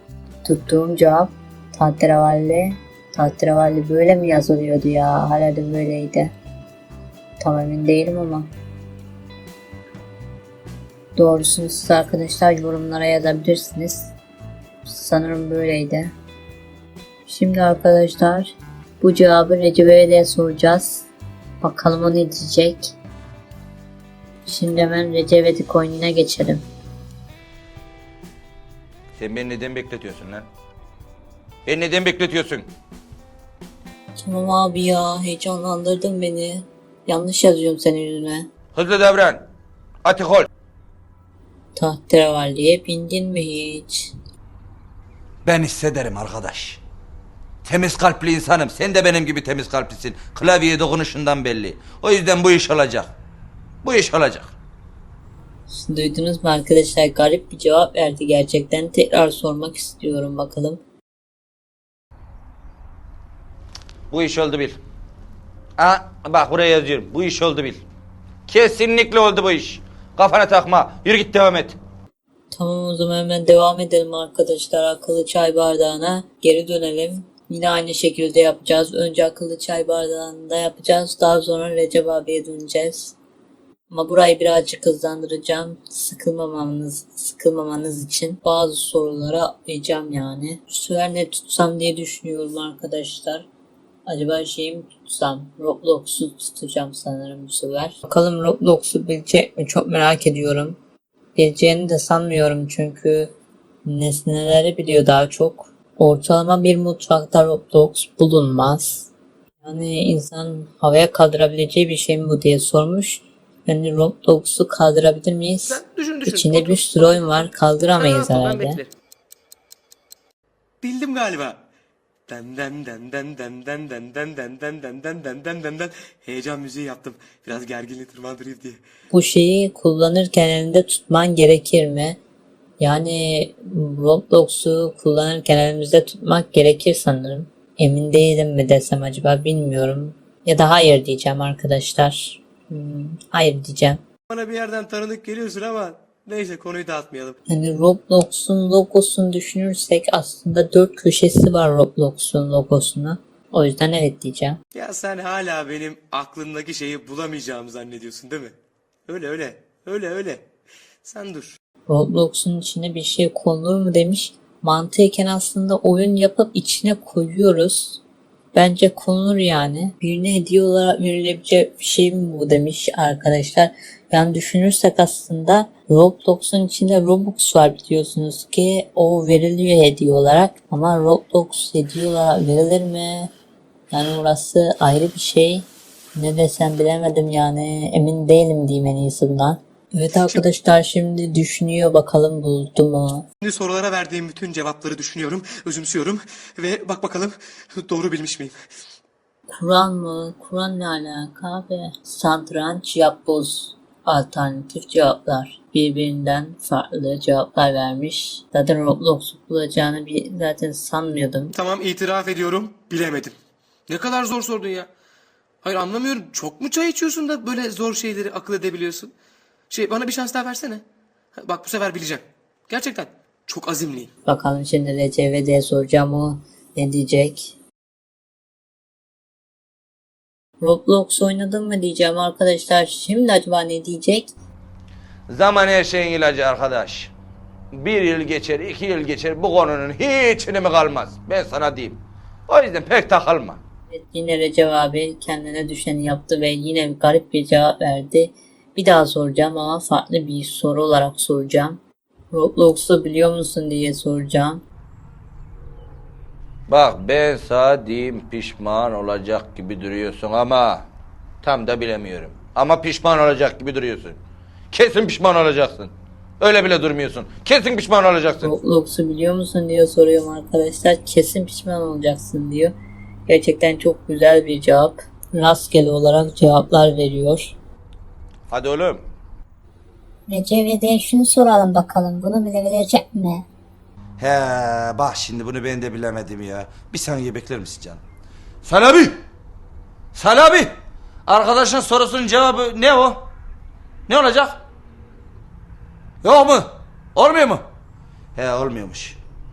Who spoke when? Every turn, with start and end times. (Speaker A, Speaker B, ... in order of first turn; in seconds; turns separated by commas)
Speaker A: 0.4-6.3, Speaker A: 7.4-8.5, Speaker A: 11.2-14.1, Speaker A: 14.8-16.1, Speaker A: 17.2-21.1, Speaker A: 21.6-22.9, Speaker A: 24.4-26.6, Speaker B: 29.2-30.5, Speaker B: 31.6-32.6, Speaker A: 34.2-38.5, Speaker B: 38.7-39.4, Speaker B: 40.0-40.5, Speaker A: 41.8-44.1, Speaker B: 45.5-46.8, Speaker B: 47.6-53.1, Speaker B: 53.8-54.5, Speaker A: 55.7-60.8, Speaker B: 64.1-64.8, Speaker B: 65.8-67.8, Speaker B: 68.5-71.8, Speaker A: 72.5-83.1, Speaker A: 83.9-93.5, Speaker A: 94.1-100.8, Speaker A: 101.3-103.3, Speaker A: 103.8-109.1, Speaker A: 109.6-118.8, Speaker C: 115.7-118.9, Speaker C: 120.8-121.6, Speaker C: 122.3-128.8, Speaker A: 129.1-132.2, Speaker A: 132.8-144.0, Speaker C: 144.3-147.4, Speaker A: 147.5-154.6, Speaker C: 154.7-158.6, Speaker C: 159.1-160.4, Speaker C: 161.0-161.6, Speaker A: 161.9-168.0, Speaker A: 168.5-183.3, Speaker A: 183.9-193.2, Speaker C: 193.4-198.5, Speaker A: 199.6-211.5, Speaker C: 211.5-213.3, Speaker C: 213.9-214.9, Speaker C: 215.6-219.1, Speaker C: 219.7-220.8, Speaker C: 221.3-224.1, Speaker A: 224.2-227.5, Speaker A: 230.6-234.3, Speaker B: 235.3-237.1, Speaker B: 237.8-243.6, Speaker A: 243.9-251.8, Speaker A: 252.3-254.6, Speaker B: 256.7-260.9, Speaker B: 261.4-264.2, Speaker B: 264.7-268.5, Speaker A: 268.4-272.7, Speaker A: 273.3-277.5, Speaker B: 278.5-279.0, Speaker D: 280.3-283.4, Speaker B: 284.2-288.0, Speaker B: 288.6-289.2, Speaker B: 290.1-290.7, Speaker B: 291.3-293.2, Speaker B: 294.1-294.6, Speaker B: 296.2-297.6, Speaker B: 298.4-299.2